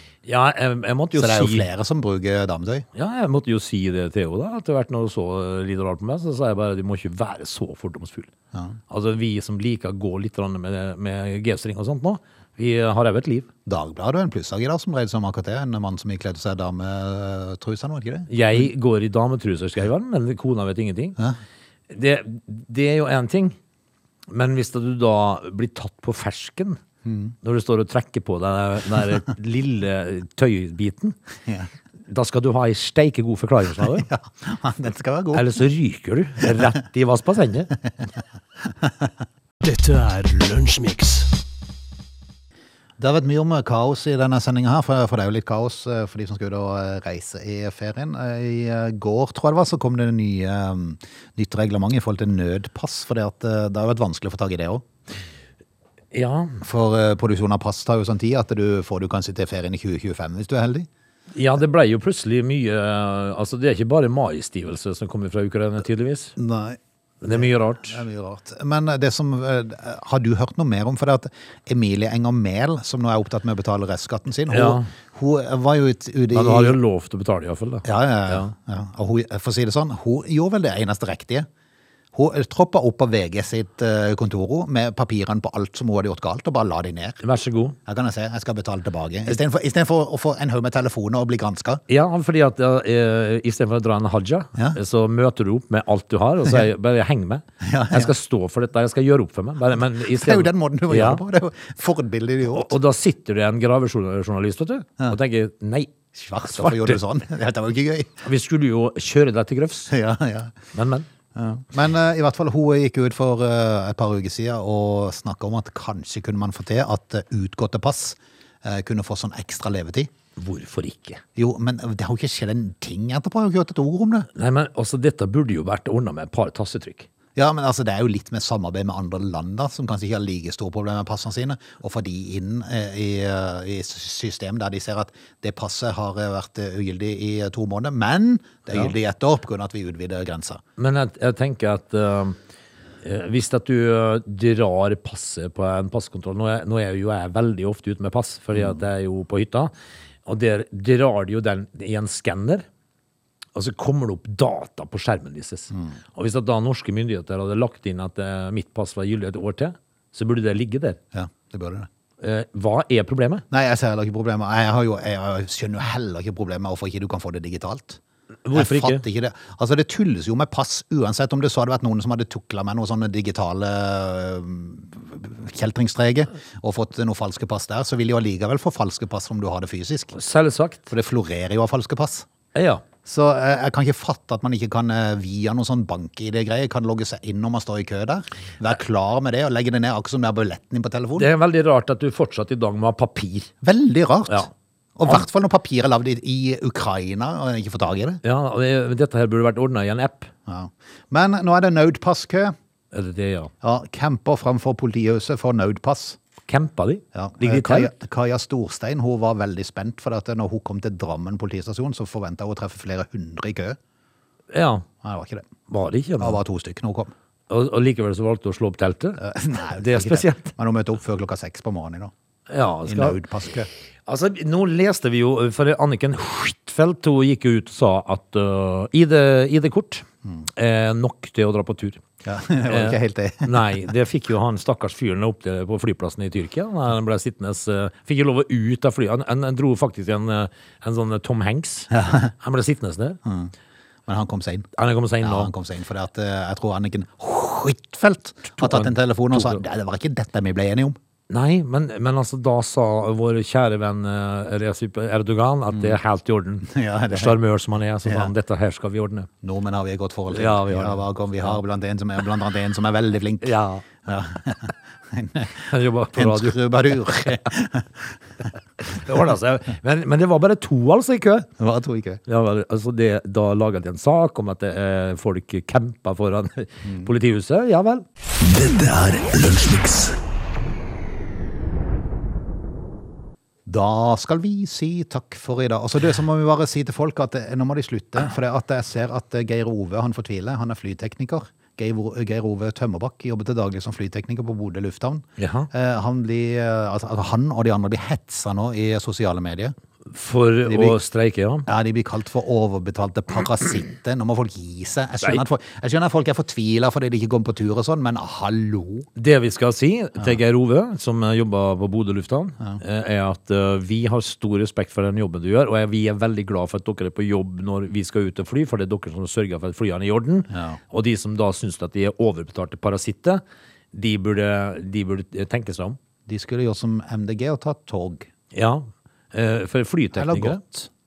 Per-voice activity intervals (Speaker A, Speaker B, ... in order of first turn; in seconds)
Speaker A: 0.2-1.7, 2.9-8.3, 8.9-13.5, 18.3-21.2, 21.9-23.6, 24.3-26.8, 27.4-31.1, 32.1-34.0, 35.3-37.7, 56.1-56.6, 61.3-66.3, 67.2-68.0, 74.5-74.9, 76.3-78.5, 87.2-87.8, 91.9-101.2, 102.5-105.9, 106.4-107.0, 108.2-109.9, 110.7-111.0, 120.4-121.2, 124.3-127.1, 140.8-142.4, 143.0-149.7, 150.2-152.6, 153.5-161.0, 162.2-163.4, 168.4-169.0, 180.1-180.9, 182.5-182.8, 191.2-193.5, 198.2-200.3, 202.9-203.5, 206.5-207.9, 214.5-214.8, 215.7-216.4, 217.5-219.2, 219.8-220.5, 222.5-223.2, 224.1-232.0, 232.7-243.2, 244.8-245.5, 248.6-249.6, 251.3-259.3, 260.3-261.6, 263.4-263.8, 265.7-266.6, 268.8-271.5, 272.3-278.0, 295.4-295.7, 300.1-301.6, 309.1-323.4, 323.9-326.0, 328.5-330.6
Speaker B: 1.1-2.8, 13.7-18.3, 27.1-27.3, 33.9-35.5, 43.0-54.8, 56.6-60.9, 66.4-66.8, 67.3-76.8, 77.8-81.5, 82.1-87.2, 87.9-91.8, 97.6-98.1, 100.0-102.7, 106.2-108.2, 109.9-110.5, 111.3-120.1, 121.3-124.3, 127.3-140.6, 161.1-161.9, 163.5-168.0, 168.5-180.1, 180.9-182.2, 183.0-191.3, 193.6-198.2, 200.5-202.5, 203.6-206.2, 207.1-213.8, 215.0-215.4, 216.2-217.1, 219.2-222.1, 222.8-223.7, 232.2-233.8, 241.9-242.3, 243.2-243.5, 244.1-244.7, 245.2-251.0, 255.7-256.0, 256.6-257.4, 258.0-258.3, 259.4-263.5, 264.0-268.1, 271.6-272.2, 276.8-277.1, 283.6-299.7, 300.7-301.0, 301.6-309.1, 320.5-320.8, 326.3-328.3, 330.1-330.9
Speaker C: 39.6-41.3, 278.4-280.2